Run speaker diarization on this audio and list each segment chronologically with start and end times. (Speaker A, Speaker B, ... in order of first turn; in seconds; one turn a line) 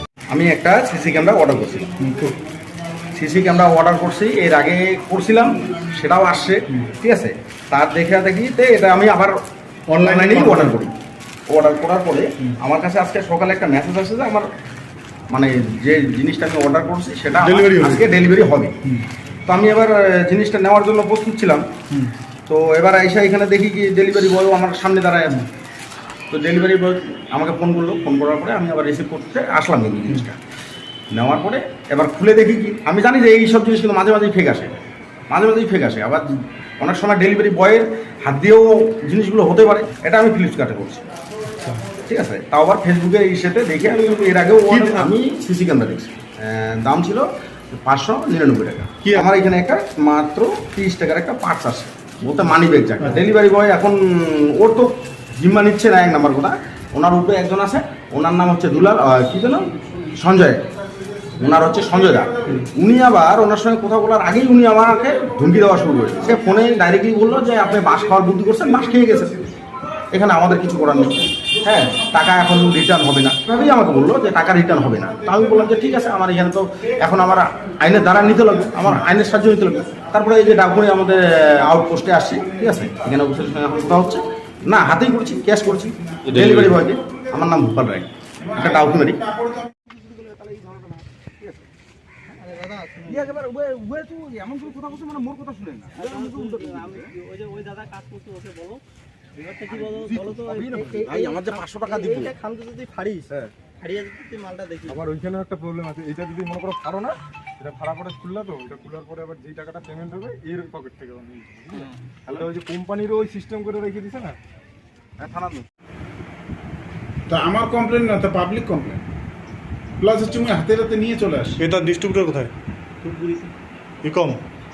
Speaker A: 0.3-2.0
Speaker B: 2.0-2.3
Speaker A: 3.1-9.3
Speaker B: 9.9-10.7
Speaker A: 10.0-10.9
Speaker A: 11.5-14.5
Speaker A: 15.3-18.7
Speaker B: 17.4-18.1
Speaker A: 19.5-21.6
Speaker A: 22.5-25.4
Speaker A: 26.3-30.4
Speaker A: 31.1-41.0
Speaker A: 41.9-47.3
Speaker B: 44.7-45.1
Speaker A: 47.8-60.6
Speaker C: 60.8-62.6
Speaker A: 61.4-69.3
Speaker C: 65.1-66.6
Speaker C: 67.5-69.3
Speaker A: 70.1-89.3
Speaker C: 75.3-75.9
Speaker C: 77.0-80.2
Speaker B: 86.3-86.8
Speaker C: 88.4-89.7
Speaker D: 90.2-90.8
Speaker A: 90.6-91.6
Speaker D: 92.3-93.3
Speaker A: 93.0-97.1
Speaker D: 95.9-98.8
Speaker D: 99.3-105.0
Speaker A: 99.7-102.3
Speaker E: 104.9-114.3
Speaker A: 112.3-112.5
Speaker A: 115.2-115.7
Speaker C: 117.3-119.0
Speaker C: 120.0-121.6
Speaker B: 121.6-122.5
Speaker C: 123.1-123.4
Speaker B: 124.0-124.4